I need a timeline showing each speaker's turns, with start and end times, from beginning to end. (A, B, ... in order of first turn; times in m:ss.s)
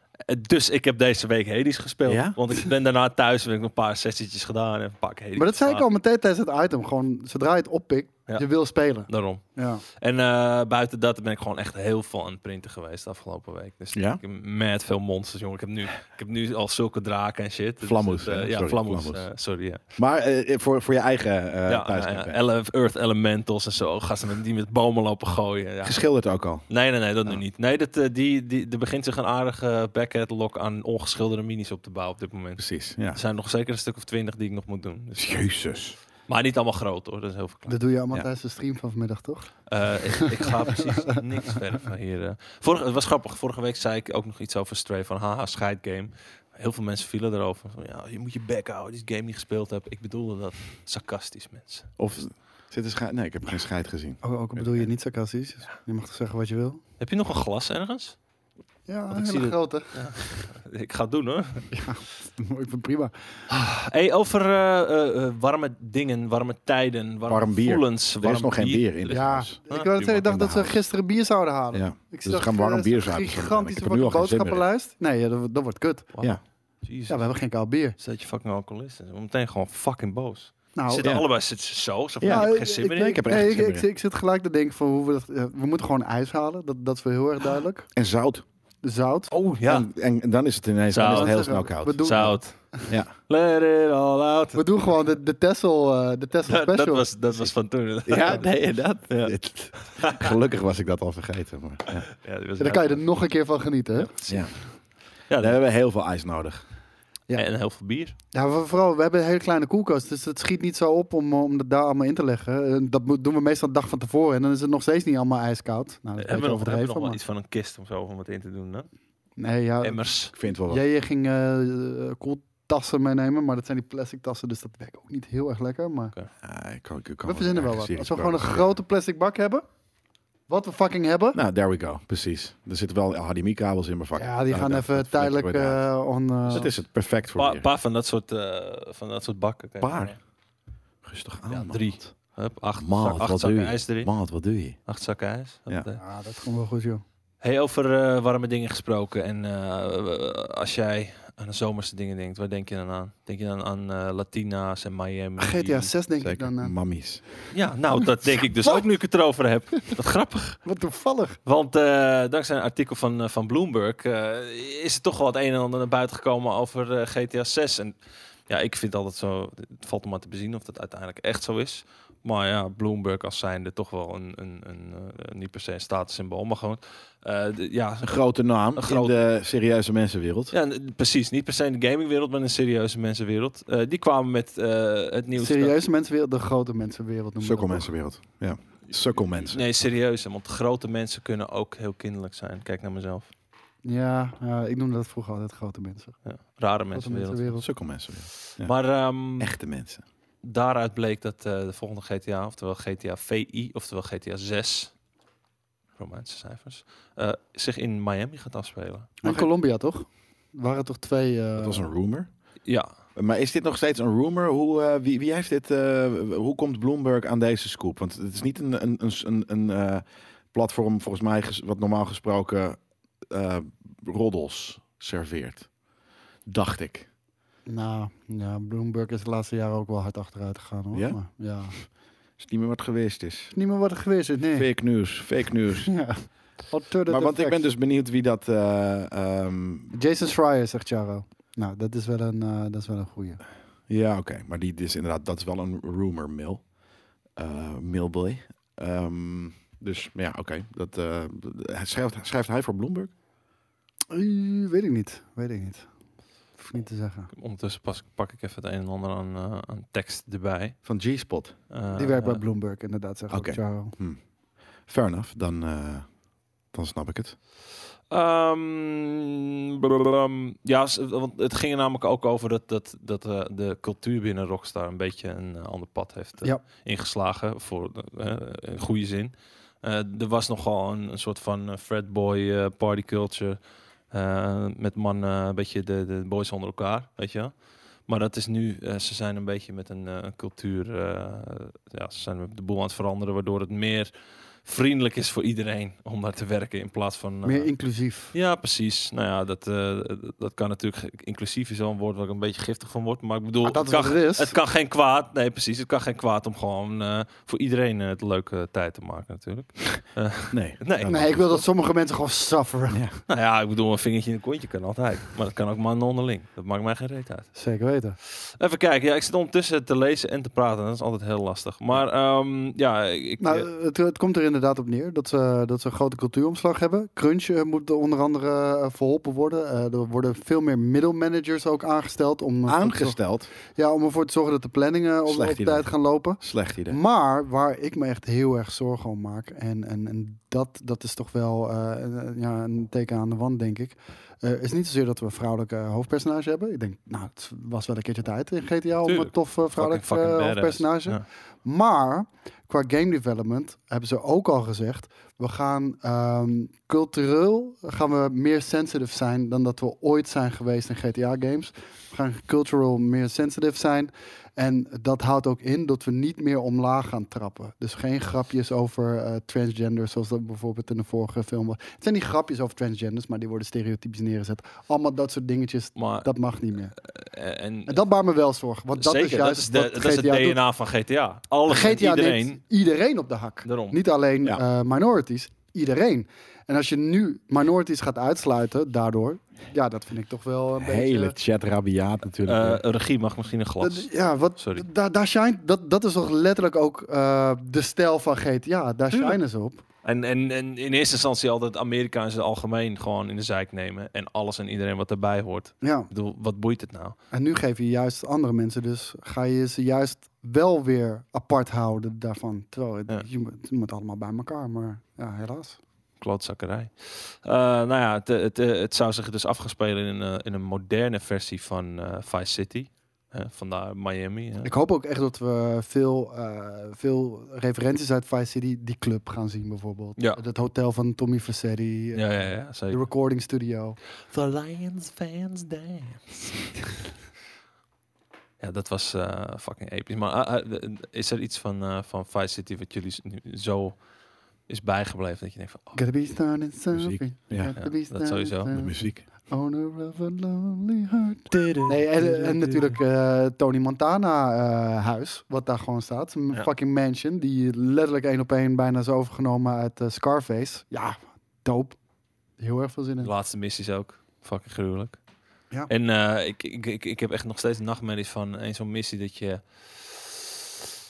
0:00.3-0:05.8 A
0:02.0-0:02.4 B
0:05.4-0:09.8 C
0:08.3-0:19.8 A
0:13.9-0:14.2 B
0:17.8-0:19.3 B
0:20.0-0:22.4 B
0:21.7-0:26.0 A
0:25.8-0:26.7 B
0:26.7-0:35.4 A
0:32.6-0:33.2 B
0:35.1-0:36.0 B
0:36.3-0:38.3 A
0:37.7-0:39.5 C
0:39.7-0:51.9 A
0:40.1-0:41.0 C
0:52.0-0:54.2 B
0:54.2-0:56.8 C
0:57.0-0:58.2 A
0:58.9-1:00.3 C
0:59.1-1:01.7 A
1:01.7-1:03.1 C
1:03.5-1:10.4 A
1:07.3-1:09.6 B
1:09.1-1:16.1 C
1:10.3-1:10.8 B
1:11.7-1:14.6 B
1:16.1-1:17.2 A
1:17.1-1:18.0 C
1:18.0-1:23.3 A
1:20.8-1:21.0 C
1:21.0-1:21.3 B
1:22.2-1:23.9 B
1:22.3-1:27.9 C
1:27.9-1:28.4 B
1:28.8-1:29.3 C
1:29.3-1:29.9 A
1:29.6-1:32.4 B
1:30.9-1:34.8 A
1:31.0-1:32.8 C
1:34.5-1:37.1 C
1:36.5-1:40.3 A
1:38.0-1:42.1 B
1:42.1-1:43.1 A
1:42.6-1:44.1 C
1:44.0-1:44.7 A
1:44.3-1:44.5 B
1:45.3-1:45.6 A
1:45.3-1:46.6 B
1:47.3-1:48.2 A
1:48.3-1:57.2 C
1:56.2-1:58.9 A
1:59.4-2:06.1 C
1:59.8-2:00.3 A
2:00.3-2:00.8 B
2:06.4-2:08.7 B
2:07.2-2:09.6 C
2:10.5-2:11.4 C
2:11.3-2:15.8 B
2:14.2-2:16.7 C
2:16.4-2:17.7 B
2:17.3-2:20.2 A
2:19.8-2:20.1 B
2:21.0-2:22.1 B
2:21.5-2:24.2 A
2:22.8-2:24.8 B
2:24.8-2:26.0 A
2:26.0-2:27.0 C
2:27.4-2:35.9 A
2:35.4-2:36.7 C
2:36.2-2:37.2 B
2:37.5-2:40.6 A
2:40.6-2:41.4 C
2:41.4-2:47.9 A
2:48.5-2:58.2 A
2:58.0-3:00.5 B
2:58.7-2:59.1 A
3:00.5-3:05.8 A
3:05.4-3:07.9 C
3:07.4-3:09.6 B
3:09.0-3:13.3 A
3:13.8-3:16.2 C
3:16.2-3:17.6 A
3:16.9-3:17.6 C
3:17.6-3:18.7 B
3:18.5-3:19.5 A
3:19.4-3:20.0 B
3:20.4-3:24.9 A
3:26.0-3:29.2 A
3:29.2-3:31.9 C
3:31.6-3:32.3 B
3:32.6-3:32.9 A
3:33.2-3:45.7 B
3:46.4-3:47.1 B
3:47.7-3:51.7 C
3:50.9-3:51.2 B
3:52.4-3:53.5 B
3:53.5-3:54.7 C
3:54.6-3:56.0 B
3:55.9-3:57.6 C
3:57.1-3:59.9 B
3:59.9-4:03.4 C
4:03.9-4:06.6 B
4:07.4-4:13.1 B
4:14.1-4:15.9 C
4:16.6-4:17.3 C
4:17.3-4:20.8 A
4:20.8-4:21.5 B
4:21.7-4:22.4 A
4:21.9-4:24.0 C
4:23.3-4:24.2 B
4:24.8-4:26.1 B
4:26.7-4:27.4 B
4:28.1-4:43.6 A
4:44.1-4:54.1 A
4:54.6-4:57.7 A
4:57.4-4:58.3 C
4:58.3-5:11.6 A
5:03.6-5:04.5 C
5:10.5-5:11.4 B
5:11.0-5:13.0 C
5:13.3-5:17.6 A
5:17.5-5:18.2 C
5:18.2-5:23.7 A
5:23.4-5:33.2 C
5:32.6-5:33.5 B
5:33.7-6:16.9 C
5:35.3-5:37.0 B
5:49.0-5:51.2 A
6:16.0-6:16.3 A
6:17.0-6:18.0 A
6:17.9-6:20.6 C
6:19.0-6:22.6 A
6:21.7-6:31.3 C
6:23.6-6:24.0 A
6:30.8-6:32.8 B
6:32.4-6:34.8 A
6:33.8-6:39.8 C
6:39.1-6:39.4 A
6:40.0-6:47.2 A
6:45.8-6:46.1 C
6:47.3-6:55.8 C
6:56.2-7:04.7 A
7:04.6-7:14.0 C
7:12.1-7:13.0 A
7:14.3-7:16.8 A
7:18.6-7:24.0 A
7:24.7-7:26.0 A
7:25.9-7:42.0 C
7:26.9-7:27.8 B
7:27.7-7:28.9 A
7:28.7-7:29.2 B
7:31.5-7:33.0 A
7:42.6-7:43.3 C
7:43.2-7:45.2 A
7:45.9-7:50.6 A